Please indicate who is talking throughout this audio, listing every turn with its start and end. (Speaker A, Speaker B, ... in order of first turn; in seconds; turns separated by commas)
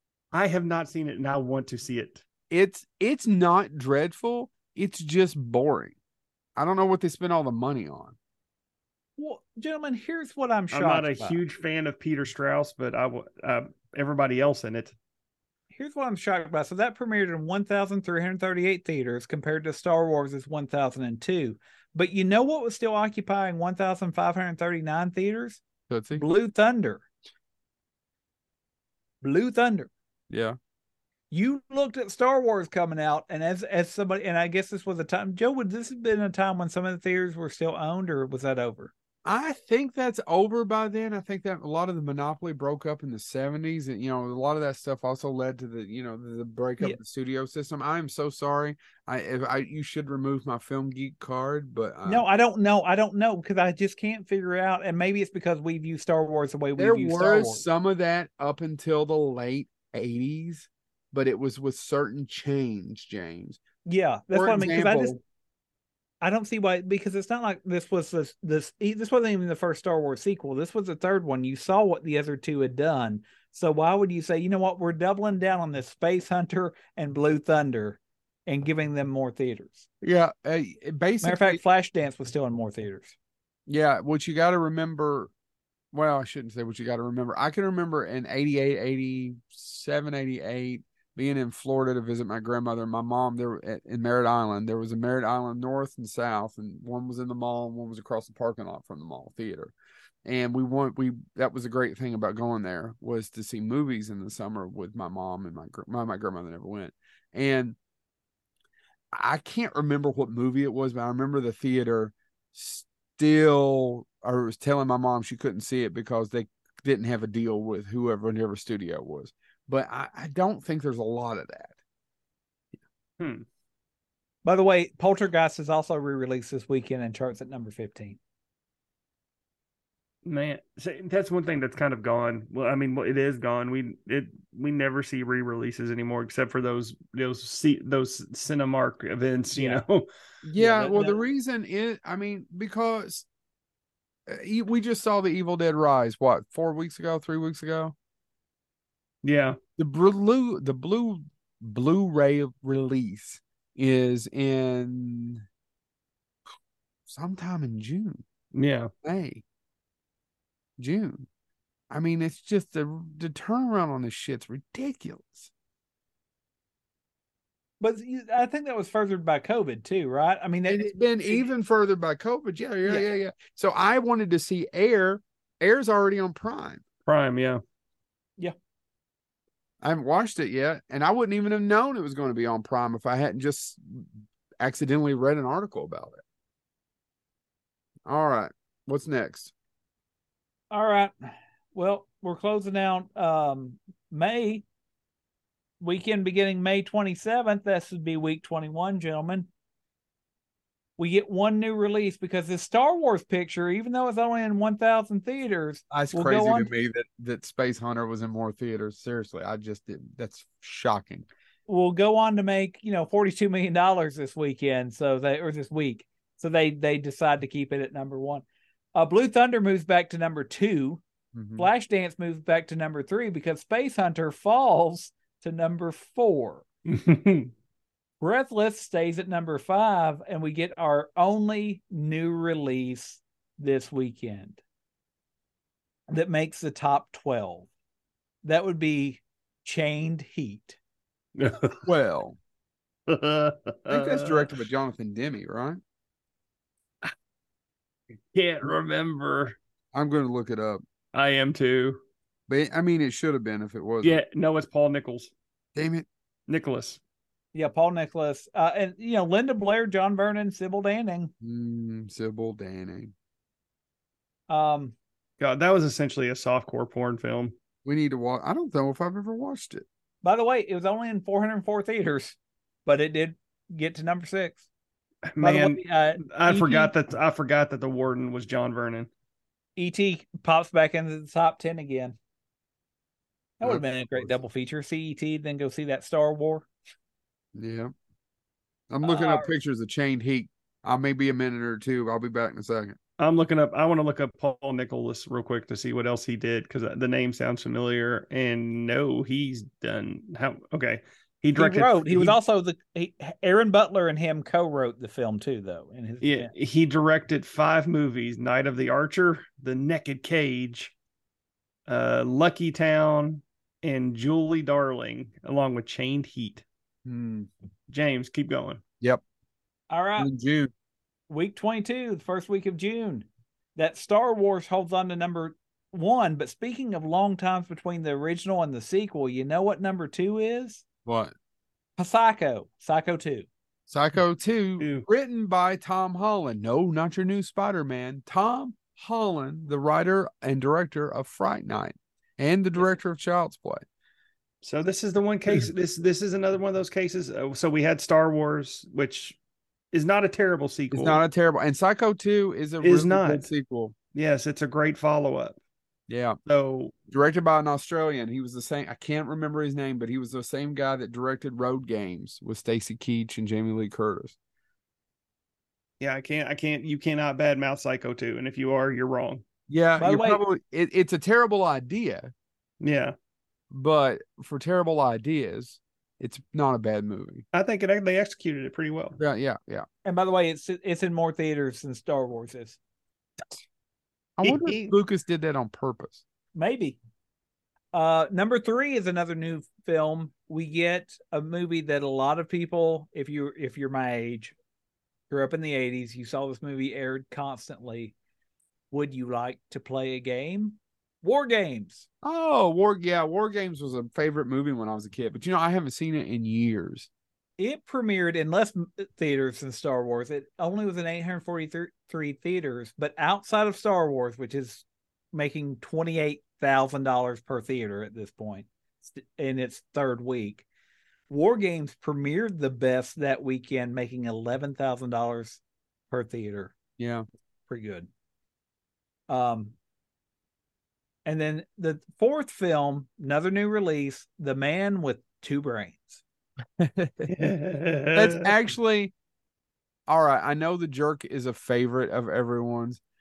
Speaker A: 0.3-2.2, Speaker B: 2.5-5.9, Speaker B: 6.5-8.2, Speaker C: 9.2-11.4, Speaker A: 10.7-14.9, Speaker C: 15.7-25.6, Speaker B: 25.9-26.2, Speaker C: 26.1-27.0, Speaker C: 29.2-29.9, Speaker B: 30.3-30.6, Speaker C: 31.3-38.9, Speaker B: 39.2-52.2, Speaker C: 52.0-57.6, Speaker B: 56.8-63.6, Speaker C: 63.9-65.2, Speaker B: 64.3-65.2, Speaker C: 66.2-79.9, Speaker B: 80.0-81.6, Speaker C: 81.2-83.2, Speaker B: 83.7-85.3, Speaker B: 85.9-99.7, Speaker B: 100.2-107.8, Speaker B: 109.1-121.7, Speaker A: 123.2-123.5, Speaker C: 124.4-128.2, Speaker A: 130.2-140.1, Speaker C: 139.5-139.8, Speaker B: 140.4-143.2, Speaker C: 140.6-141.2, Speaker B: 144.3-147.9, Speaker A: 149.2-149.6, Speaker B: 149.8-155.4, Speaker B: 157.1-158.2, Speaker A: 158.5-158.9, Speaker B: 159.0-159.4, Speaker B: 160.8-161.3, Speaker B: 161.9-165.5, Speaker C: 167.8-171.5, Speaker B: 170.7-176.8, Speaker A: 177.1-177.6, Speaker B: 179.8-184.1, Speaker B: 184.6-186.2, Speaker B: 188.1-189.5, Speaker C: 190.7-194.6, Speaker C: 195.8-199.5, Speaker C: 201.0-206.7, Speaker B: 205.9-211.2, Speaker C: 211.7-221.0, Speaker B: 221.3-221.7, Speaker C: 221.6-226.7, Speaker A: 226.9-227.5, Speaker C: 228.2-234.6, Speaker C: 236.1-237.7, Speaker C: 238.4-240.8, Speaker A: 241.3-241.8, Speaker B: 241.8-242.4, Speaker A: 243.1-244.6, Speaker B: 243.9-245.8, Speaker A: 248.3-249.6, Speaker B: 249.9-250.8, Speaker A: 251.1-252.0, Speaker B: 252.5-254.2, Speaker A: 254.0-255.3, Speaker B: 255.7-256.1, Speaker A: 256.5-257.0, Speaker C: 257.5-261.3, Speaker B: 261.4-263.1, Speaker C: 264.5-264.9, Speaker A: 265.4-267.5, Speaker B: 267.8-269.8, Speaker C: 270.2-274.6, Speaker A: 275.3-279.1, Speaker C: 275.4-276.9, Speaker C: 279.8-282.1, Speaker C: 283.6-286.7, Speaker B: 283.6-284.3, Speaker B: 287.5-287.9, Speaker B: 288.9-293.0, Speaker C: 289.0-289.5, Speaker A: 293.2-302.4, Speaker C: 301.5-306.5, Speaker A: 306.2-310.9, Speaker A: 311.9-316.6, Speaker B: 317.0-317.5, Speaker A: 317.9-318.8, Speaker C: 319.9-320.3, Speaker B: 320.2-320.7, Speaker C: 321.3-330.8, Speaker B: 331.1-331.3, Speaker C: 332.0-333.5, Speaker B: 333.9-343.8, Speaker A: 334.8-335.1, Speaker A: 344.6-349.4, Speaker A: 349.9-351.2, Speaker B: 350.9-353.9, Speaker A: 352.8-353.5, Speaker A: 354.1-355.6, Speaker B: 356.1-356.4, Speaker A: 356.4-356.9, Speaker B: 357.1-364.3, Speaker A: 366.0-369.4, Speaker B: 369.7-372.3, Speaker C: 370.0-370.4, Speaker A: 372.8-373.1, Speaker B: 373.7-377.4, Speaker A: 377.5-379.2, Speaker B: 379.2-379.9, Speaker C: 380.0-382.8, Speaker B: 384.4-386.2, Speaker A: 384.4-384.9, Speaker C: 386.5-387.0, Speaker C: 387.9-394.5, Speaker C: 395.3-398.1, Speaker C: 398.9-402.1, Speaker B: 402.2-407.1, Speaker C: 407.6-420.6, Speaker C: 421.3-426.7, Speaker B: 427.0-427.2, Speaker C: 427.7-428.1, Speaker C: 429.3-429.7, Speaker C: 431.2-436.2, Speaker B: 436.8-437.3, Speaker A: 437.3-438.5, Speaker B: 438.1-439.1, Speaker B: 440.1-443.0